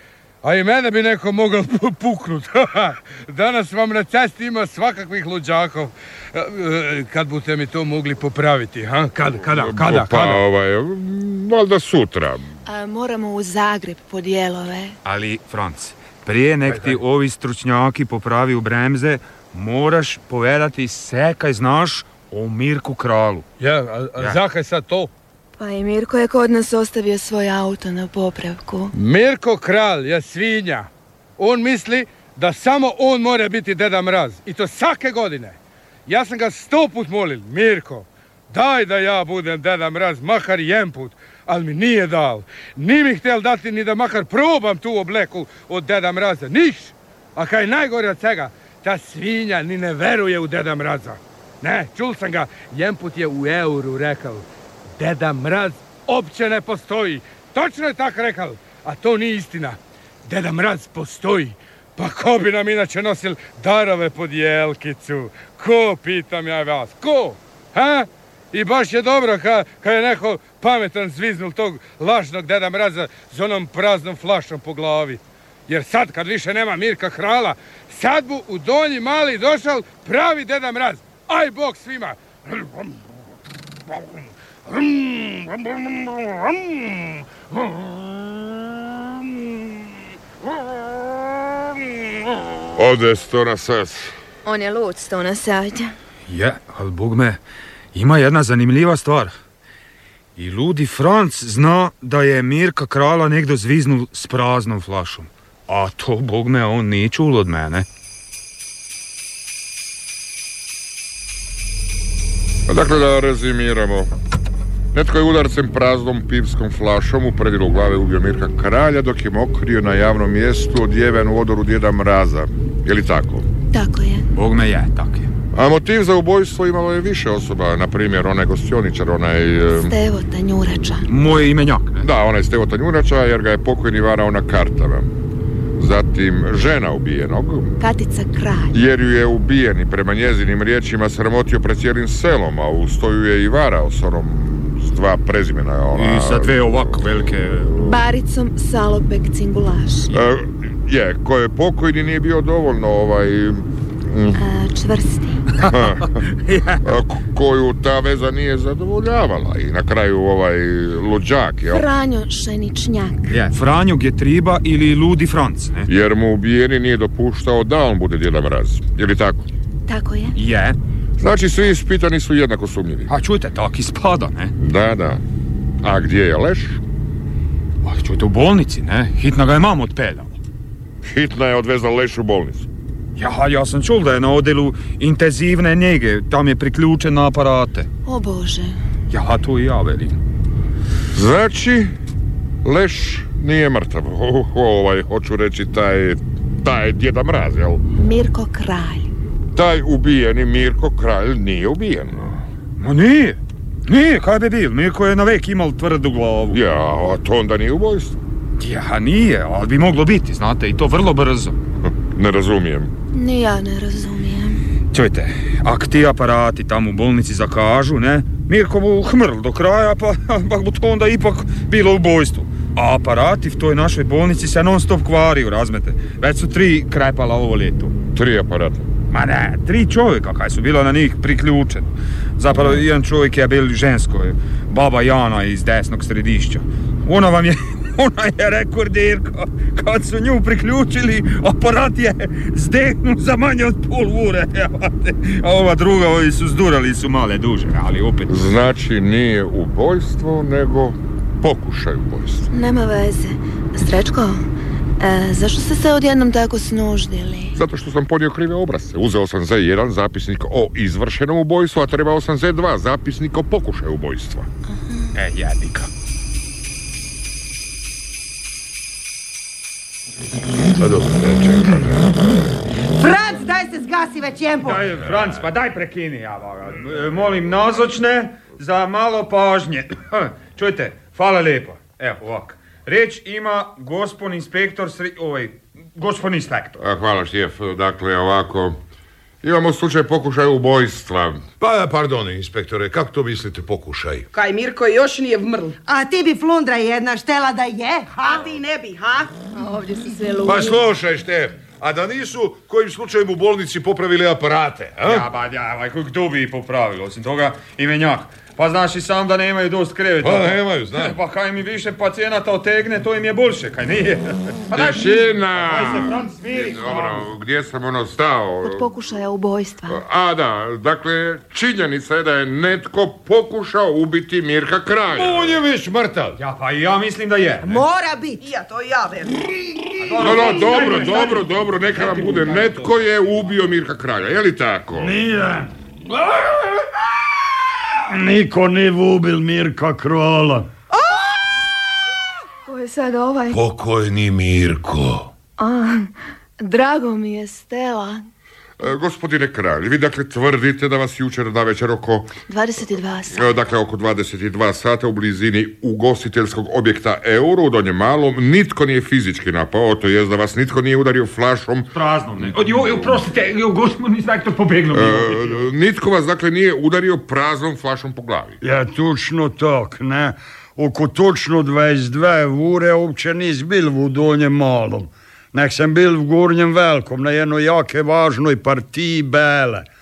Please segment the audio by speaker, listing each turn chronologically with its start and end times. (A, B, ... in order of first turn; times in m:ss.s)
0:00.4-0:10.4 A
0:09.5-0:12.5 B
0:12.7-0:15.0 C
0:15.0-0:23.5 D
0:23.6-0:25.1 A
0:25.6-0:28.9 C
0:28.9-0:54.5 A
0:55.0-1:22.9 A
1:24.7-1:25.6 A
1:32.8-1:34.1 B
1:34.4-1:35.9 C
1:36.3-1:37.4 D
1:37.9-1:39.3 D
1:40.4-1:47.9 D
1:52.7-1:54.1 B
1:54.9-2:03.5 B
2:03.7-2:04.3 C
2:04.3-2:05.3 D
2:05.5-2:09.9 B
2:09.7-2:11.1 C
2:11.1-2:12.1 D
2:12.0-2:15.1 B
2:15.8-2:17.7 B
2:17.8-2:18.8 C
2:18.7-2:27.0 B
2:26.0-2:27.8 D
2:27.8-2:30.1 C
2:30.1-2:34.4 B
2:34.4-2:35.4 C
2:35.6-2:36.2 B
2:36.4-2:37.0 D
2:36.8-2:41.8 B
2:41.7-2:43.3 C
2:43.3-2:45.9 D
2:45.9-2:49.5 B
2:49.9-2:50.4 C
2:50.4-2:50.8 D
2:51.2-2:53.1 B
2:53.1-2:54.6 D
2:54.6-2:55.2 B
2:55.8-2:56.8 B
2:57.8-3:00.4 D
3:01.0-3:02.7 B
3:03.2-3:07.9 D
3:08.1-3:08.8 C
3:09.1-3:10.2 D
3:11.1-3:11.9 B
3:12.6-3:17.8 B
3:18.0-3:19.1 C
3:19.6-3:22.4 B
3:22.8-3:26.6 D
3:26.5-3:28.2 B
3:28.6-3:31.6 D
3:31.8-3:32.9 B
3:33.1-3:34.6 C
3:34.9-3:48.0 D
3:48.1-3:48.9 B
3:49.1-4:08.4 D
4:08.3-4:12.5 B
4:12.5-4:14.4 C
4:15.0-4:17.6 C
4:17.6-4:24.5 B
4:25.2-4:25.9 D
4:30.8-4:31.9 E
4:32.9-4:34.9 F
4:34.6-4:46.8 D
4:46.8-4:48.8 B
4:49.4-4:51.5 B
4:51.6-4:54.3 E
4:54.3-4:55.8 G
4:55.8-4:58.5 F
4:58.2-4:59.3 G
4:59.5-5:00.8 C
5:00.4-5:05.2 E
5:05.0-5:17.2 D
5:10.2-5:11.2 E
5:14.7-5:18.9 B
5:18.6-5:20.0 C
5:19.9-5:25.6 B
5:25.1-5:26.4 E
5:26.4-5:27.8 D
5:27.6-5:28.4 F
5:28.4-5:29.5 G
5:30.0-5:32.8 D
5:30.2-5:35.1 B
5:35.0-5:35.7 H
5:38.1-5:40.7 H
5:42.7-5:43.6 C
5:43.5-5:45.3 E
5:45.6-5:48.3 C
5:48.8-5:52.3 B
5:52.5-5:53.5 C
5:53.3-6:01.9 B
6:01.9-6:05.6 D
6:02.6-6:03.1 B
6:04.9-6:08.6 B
6:08.6-6:19.9 H